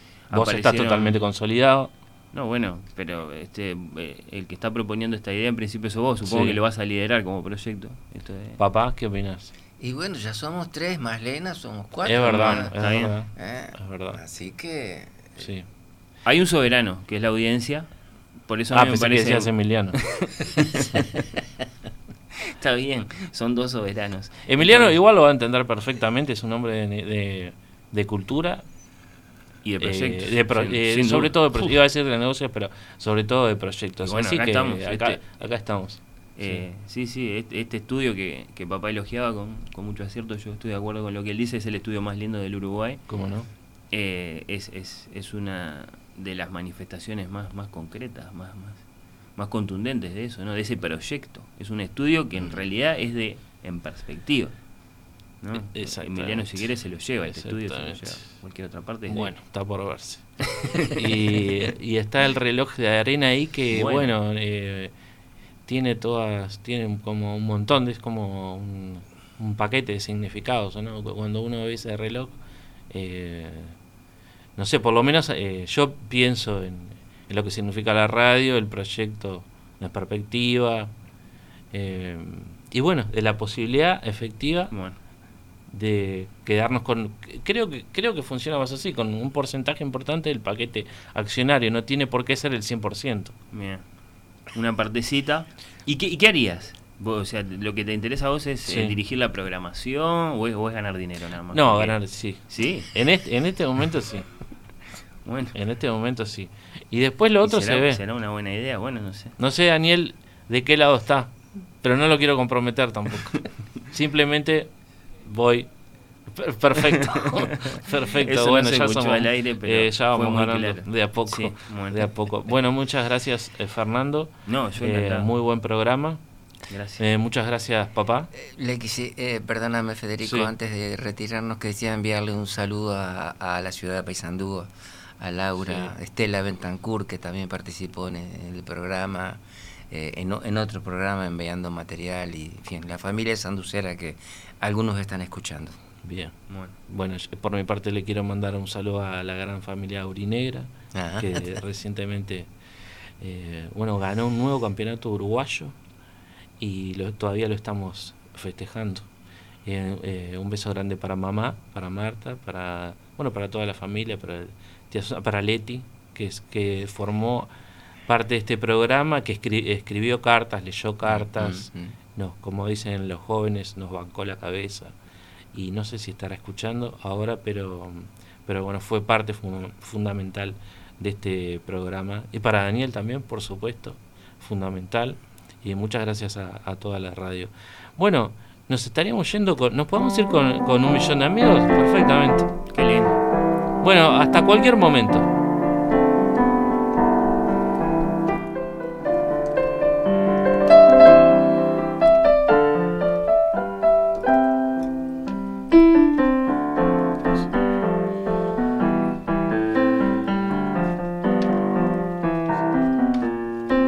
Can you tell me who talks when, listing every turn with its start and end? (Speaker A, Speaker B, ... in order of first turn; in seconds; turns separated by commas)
Speaker A: 0.3-1.2, Speaker B: 0.3-1.9, Speaker A: 2.3-8.6, Speaker B: 6.2-6.6, Speaker B: 8.6-9.5, Speaker C: 9.8-15.4, Speaker B: 12.0-14.2, Speaker A: 12.3-13.2, Speaker B: 15.4-15.7, Speaker A: 16.2-17.9, Speaker A: 18.4-21.1, Speaker B: 18.7-20.2, Speaker A: 22.4-24.9, Speaker B: 24.4-28.6, Speaker A: 29.6-31.7, Speaker B: 29.8-36.6, Speaker A: 34.0-35.2, Speaker A: 36.4-43.0, Speaker B: 43.1-43.5, Speaker A: 43.9-54.6, Speaker A: 55.4-59.3, Speaker B: 55.5-56.7, Speaker B: 57.3-58.3, Speaker B: 59.1-64.9, Speaker A: 63.7-64.1, Speaker B: 65.7-72.3, Speaker B: 72.9-73.8, Speaker B: 74.5-80.9, Speaker B: 81.7-84.7, Speaker A: 84.7-85.0, Speaker B: 85.7-93.3, Speaker A: 93.5-93.9, Speaker A: 94.5-102.0, Speaker B: 98.6-99.0, Speaker B: 101.5-104.3, Speaker A: 102.5-102.9, Speaker A: 105.2-105.5, Speaker B: 105.5-108.0, Speaker A: 107.4-109.3, Speaker B: 109.4-115.7, Speaker B: 116.2-126.2, Speaker A: 116.9-122.5, Speaker A: 124.5-125.3, Speaker A: 126.7-127.0, Speaker B: 127.0-128.3, Speaker C: 128.3-145.8, Speaker B: 130.2-130.5, Speaker B: 135.6-135.9, Speaker B: 146.0-146.3, Speaker A: 146.5-146.8, Speaker B: 146.8-152.5, Speaker C: 150.9-151.6, Speaker B: 153.2-155.8, Speaker B: 156.6-159.1, Speaker B: 159.6-167.5, Speaker B: 168.1-174.9, Speaker C: 171.1-171.9, Speaker B: 175.5-192.5, Speaker A: 192.7-193.2, Speaker B: 193.8-195.3